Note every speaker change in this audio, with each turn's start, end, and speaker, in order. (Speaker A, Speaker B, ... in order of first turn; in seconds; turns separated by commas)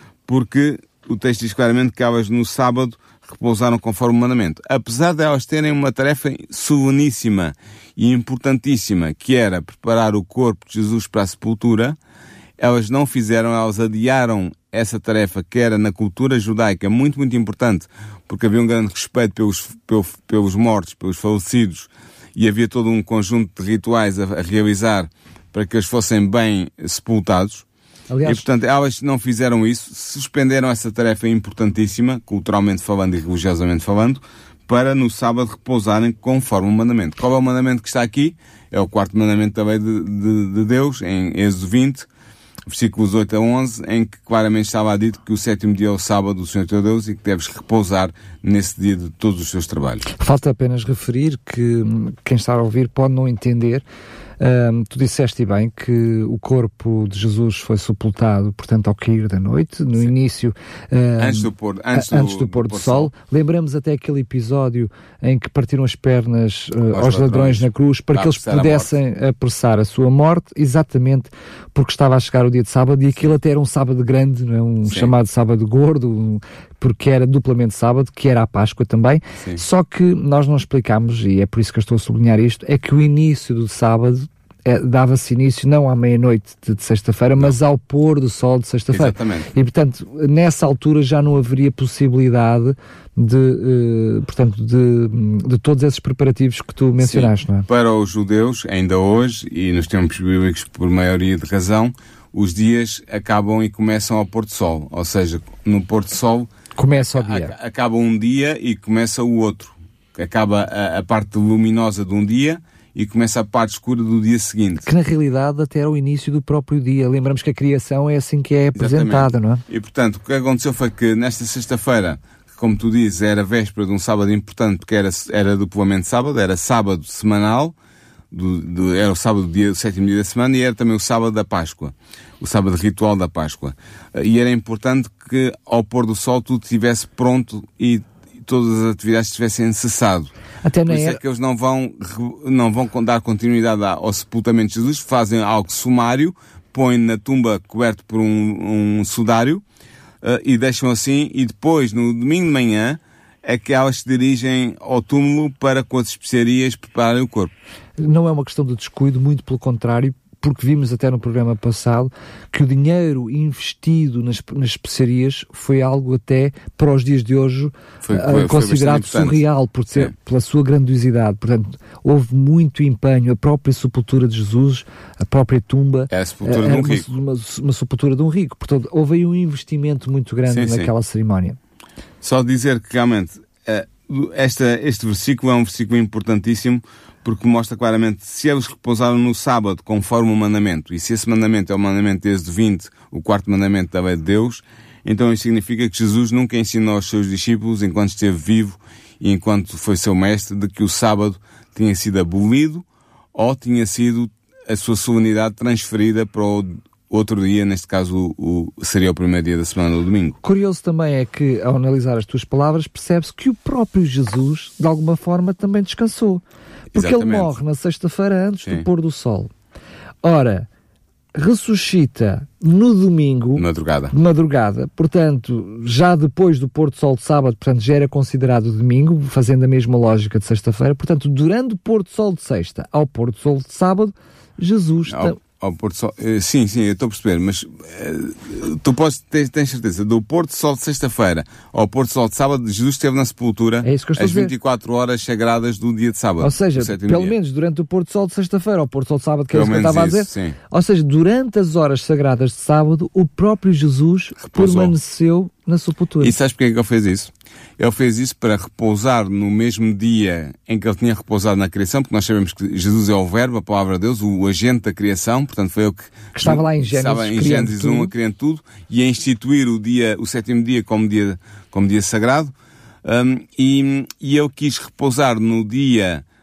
Speaker A: 0.2-12.0, Speaker A: 12.6-27.6, Speaker B: 28.1-28.4, Speaker A: 28.2-42.1, Speaker A: 42.6-50.1, Speaker B: 50.1-53.8, Speaker B: 54.4-97.7, Speaker A: 61.2-63.1, Speaker A: 66.9-68.9, Speaker A: 74.9-75.1, Speaker A: 88.9-89.5, Speaker A: 97.0-114.8, Speaker B: 106.8-107.5, Speaker B: 114.8-119.6, Speaker A: 118.8-127.7, Speaker A: 128.3-140.3, Speaker B: 140.6-141.2, Speaker A: 140.9-149.6, Speaker A: 150.2-157.5, Speaker B: 158.0-181.6, Speaker A: 168.0-169.4, Speaker A: 176.1-177.1, Speaker A: 180.5-180.9, Speaker A: 182.2-210.4, Speaker B: 210.4-219.5, Speaker A: 216.9-217.5, Speaker B: 220.2-220.7, Speaker B: 221.3-235.4, Speaker A: 223.6-224.1, Speaker A: 235.1-247.3, Speaker B: 243.8-244.5, Speaker B: 246.4-256.3, Speaker A: 249.5-250.6, Speaker A: 254.4-254.9, Speaker A: 256.2-276.2, Speaker B: 266.3-268.1